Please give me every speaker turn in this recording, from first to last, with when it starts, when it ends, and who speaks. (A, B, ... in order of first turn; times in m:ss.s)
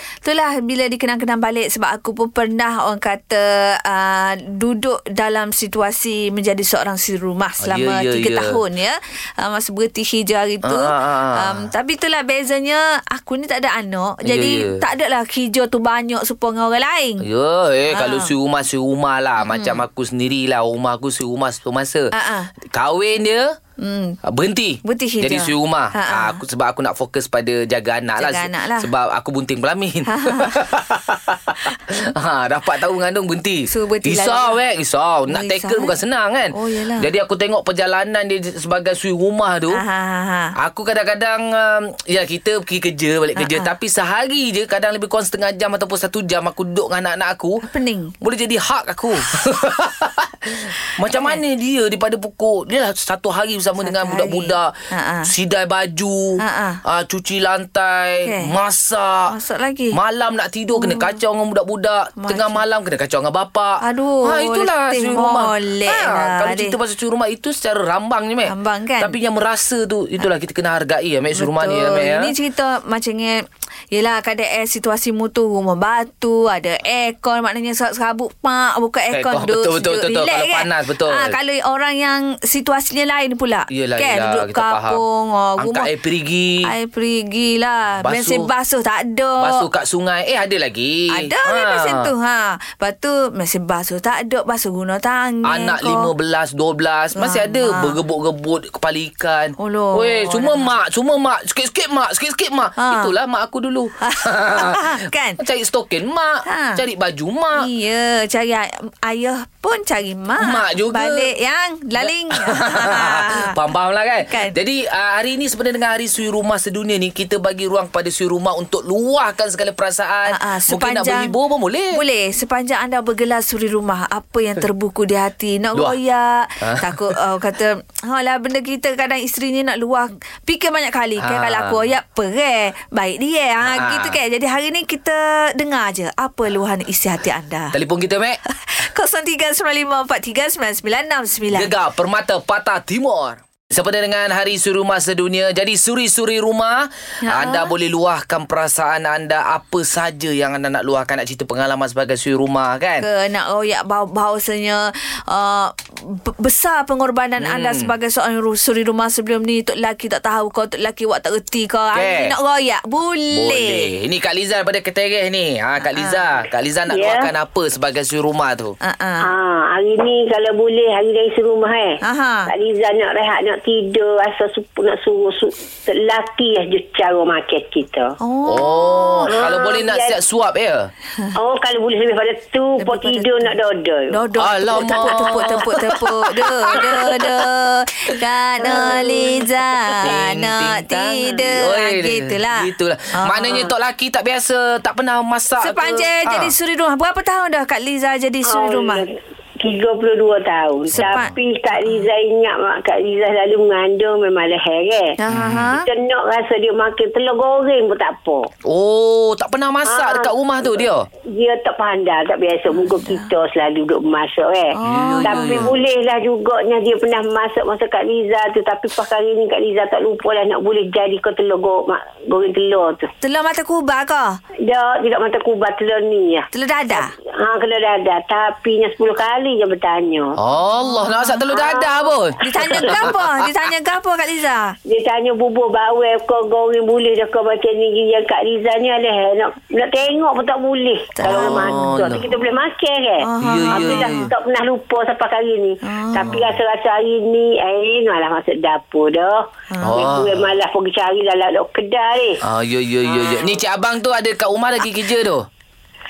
0:00.2-0:17.2 A
0:07.6-0:08.6 B
0:10.6-0:11.6 B
0:14.2-0:14.8 B
0:17.2-0:22.1 B
0:17.9-0:18.3 A
0:19.4-0:19.8 A
0:22.1-0:22.5 A
0:22.6-0:23.6 B
0:23.8-0:24.2 A
0:24.2-0:39.8 B
0:24.8-0:26.4 A
0:28.2-0:28.9 A
0:30.1-0:30.6 A
0:33.7-0:34.6 A
0:35.3-0:36.0 A
0:36.5-0:37.1 A
0:39.7-0:40.5 A
0:40.6-0:47.6 B
0:43.4-0:43.7 A
0:47.6-0:48.1 A
0:48.2-0:59.3 B
0:51.1-0:51.4 A
0:53.8-0:55.3 A
0:56.4-0:56.8 A
0:58.2-0:58.5 A
0:59.3-1:00.0 A
0:59.9-1:12.3 B
1:00.8-1:01.2 A
1:02.2-1:02.6 A
1:03.8-1:06.8 A
1:08.5-1:09.2 A
1:11.4-1:25.9 A
1:19.1-1:21.4 B
1:23.7-1:25.0 B
1:25.6-1:26.7 B
1:26.6-1:29.6 A
1:28.0-1:28.5 B
1:29.4-1:32.1 B
1:31.1-1:36.1 A
1:35.4-1:47.7 B
1:37.2-1:38.0 A
1:39.6-1:40.7 A
1:42.8-1:43.1 A
1:44.0-1:45.4 A
1:46.5-1:46.8 A
1:47.6-1:53.6 A
1:50.4-1:51.3 B
1:52.0-2:02.0 B
1:54.3-1:54.6 A
2:00.3-2:01.3 A
2:01.9-2:17.8 A
2:06.6-2:07.2 B
2:11.2-2:11.8 B
2:13.6-2:14.2 B
2:17.7-2:18.4 B
2:18.5-2:21.7 A
2:21.5-2:33.1 B
2:27.3-2:27.7 A
2:33.0-2:43.9 A
2:37.4-2:37.9 B
2:42.0-2:42.3 B
2:43.3-2:48.8 B
2:45.9-2:46.4 A
2:46.9-2:47.3 C
2:48.8-2:49.3 A
2:49.2-2:58.1 C
2:52.0-2:52.5 A
2:58.2-2:59.3 A
2:58.5-3:00.9 B
2:59.3-3:00.2 C
3:01.4-3:04.2 C
3:02.8-3:03.5 A
3:04.1-3:13.7 A
3:04.4-3:07.5 B
3:04.8-3:05.3 C
3:08.6-3:09.4 C
3:10.0-3:16.5 B
3:15.6-3:19.0 A
3:18.5-3:25.2 C
3:20.9-3:21.3 B
3:21.0-3:22.0 A
3:25.2-3:25.9 A
3:25.3-3:25.7 B
3:25.8-3:28.5 C
3:28.7-3:31.1 B
3:29.9-3:43.1 C
3:32.7-3:33.3 A
3:34.8-3:35.7 A
3:34.8-3:35.8 B
3:43.2-3:44.4 A
3:44.6-3:50.4 C
3:46.5-3:47.1 A
3:50.4-3:53.5 B
3:50.8-3:51.4 A
3:51.5-3:52.1 C
3:52.4-3:54.8 A
3:54.9-4:12.4 C
4:01.2-4:01.8 A
4:01.2-4:02.3 B
4:03.2-4:04.3 A
4:03.4-4:04.3 B
4:05.8-4:06.4 A
4:06.2-4:06.5 B
4:09.7-4:10.0 A
4:09.8-4:10.5 B
4:12.4-4:15.5 B
4:13.1-4:13.6 C